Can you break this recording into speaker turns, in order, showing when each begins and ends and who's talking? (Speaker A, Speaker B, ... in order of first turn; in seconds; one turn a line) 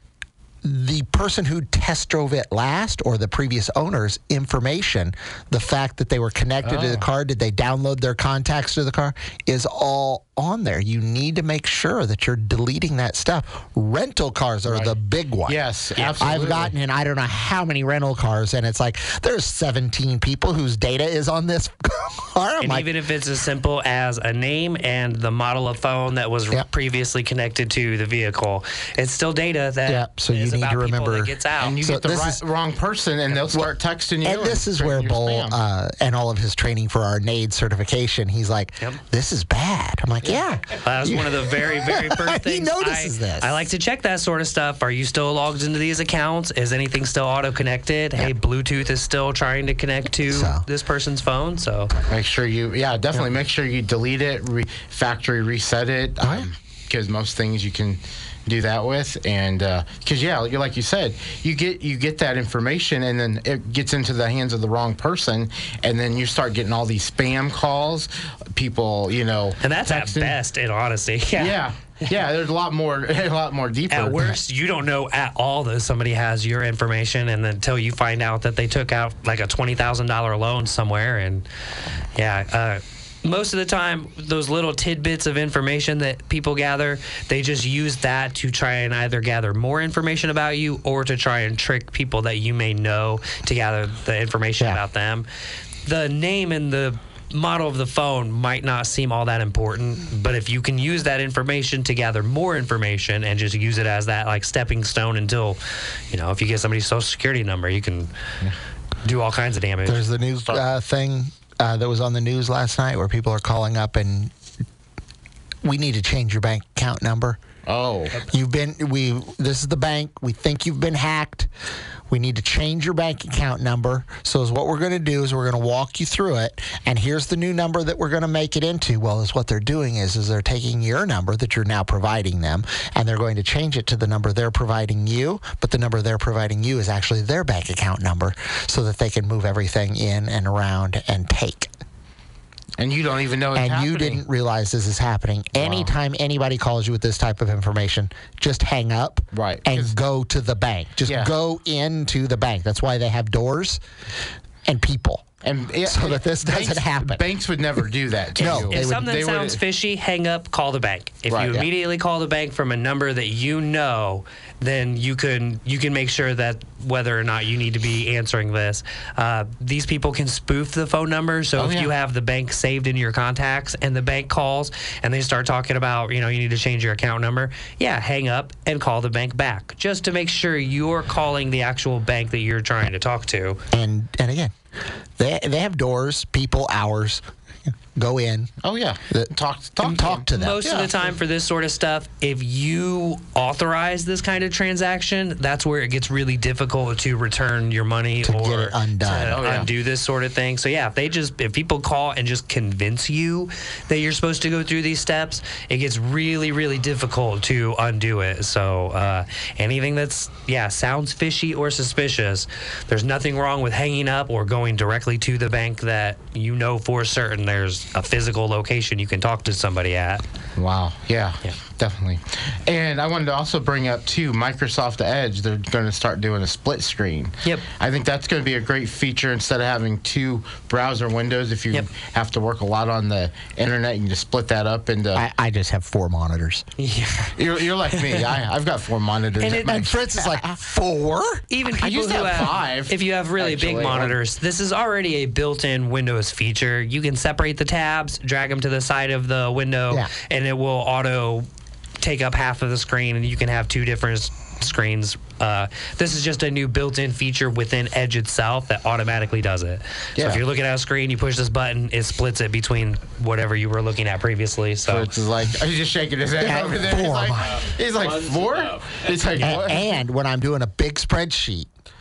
Speaker A: 0.6-15.6
Speaker B: 6.6-7.1
Speaker B: 14.7-14.9
Speaker B: 15.5-16.7
Speaker C: 16.0-16.3
Speaker A: 16.2-22.9
Speaker C: 22.6-31.8
Speaker A: 29.9-32.4
Speaker B: 31.6-35.6
Speaker A: 34.2-43.7
Speaker C: 40.8-51.9
Speaker A: 50.3-50.6
Speaker B: 52.1-70.4
Speaker A: 56.2-56.5
Speaker C: 69.6-71.6
Speaker B: 71.4-74.3
Speaker C: 73.9-81.5
Speaker C: 82.1-95.3
Speaker C: 95.8-105.6
Speaker C: 106.1-108.1
Speaker C: 109.0-110.0
Speaker A: 109.9-114.3
Speaker A: 115.6-117.4
Speaker B: 117.7-118.1
Speaker A: 118.3-121.5
Speaker A: 122.1-141.7
Speaker B: 142.8-144.2
Speaker A: 143.6-153.8
Speaker B: 145.6-145.9
Speaker B: 149.3-149.9
Speaker B: 151.1-151.3
Speaker A: 154.7-155.3
Speaker B: 155.4-159.6
Speaker A: 155.8-157.2
Speaker A: 158.4-159.1
Speaker C: 158.4-183.6
Speaker B: 161.3-161.7
Speaker B: 171.6-171.9
Speaker A: 183.7-184.6
Speaker A: 185.2-188.5
Speaker B: 188.6-191.1
Speaker C: 189.8-220.2
Speaker A: 189.9-190.7
Speaker A: 198.2-199.4
Speaker B: 199.2-199.7
Speaker B: 220.6-235.2
Speaker A: 235.2-236.7
Speaker C: 236.8-237.3
Speaker B: 237.4-240.6
Speaker C: 239.4-239.9
Speaker A: 239.6-241.5
Speaker C: 241.5-251.5
Speaker B: 241.8-244.2
Speaker C: 252.0-265.1
Speaker B: 260.2-260.4
Speaker B: 264.9-269.9
Speaker A: 266.4-267.7
Speaker C: 269.4-269.7
Speaker A: 269.4-271.7